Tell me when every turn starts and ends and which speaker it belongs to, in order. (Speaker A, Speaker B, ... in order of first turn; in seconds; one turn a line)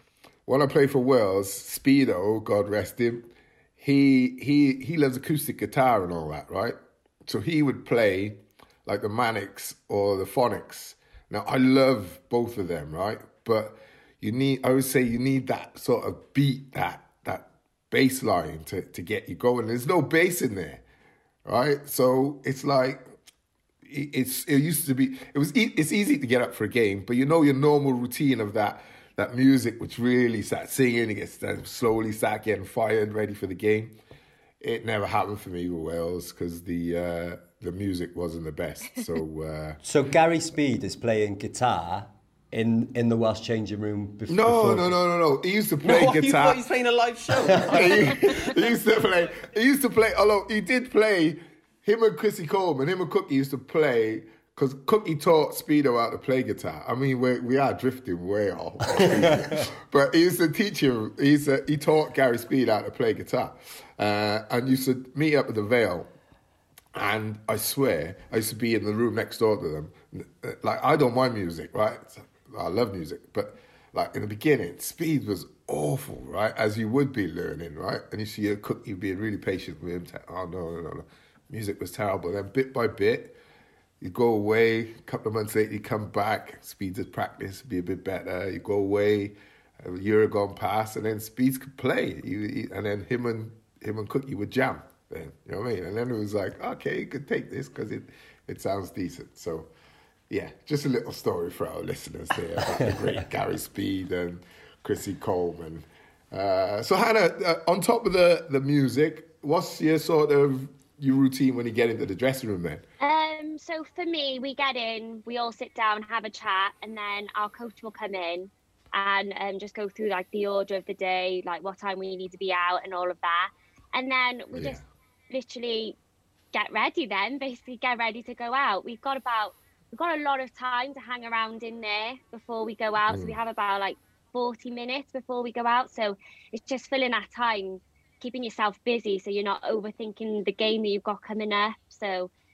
Speaker A: 0.5-20.8
Speaker A: 21.5-23.0
Speaker A: 23.9-34.0
Speaker A: 34.6-39.8
Speaker B: 39.8-44.9
Speaker A: 44.3-46.6
Speaker C: 45.8-48.5
Speaker A: 47.7-66.1
Speaker A: 66.9-83.4
Speaker A: 84.0-99.7
Speaker A: 100.3-112.8
Speaker D: 113.0-126.0
Speaker A: 124.5-124.8
Speaker D: 126.5-142.3
Speaker A: 133.1-133.4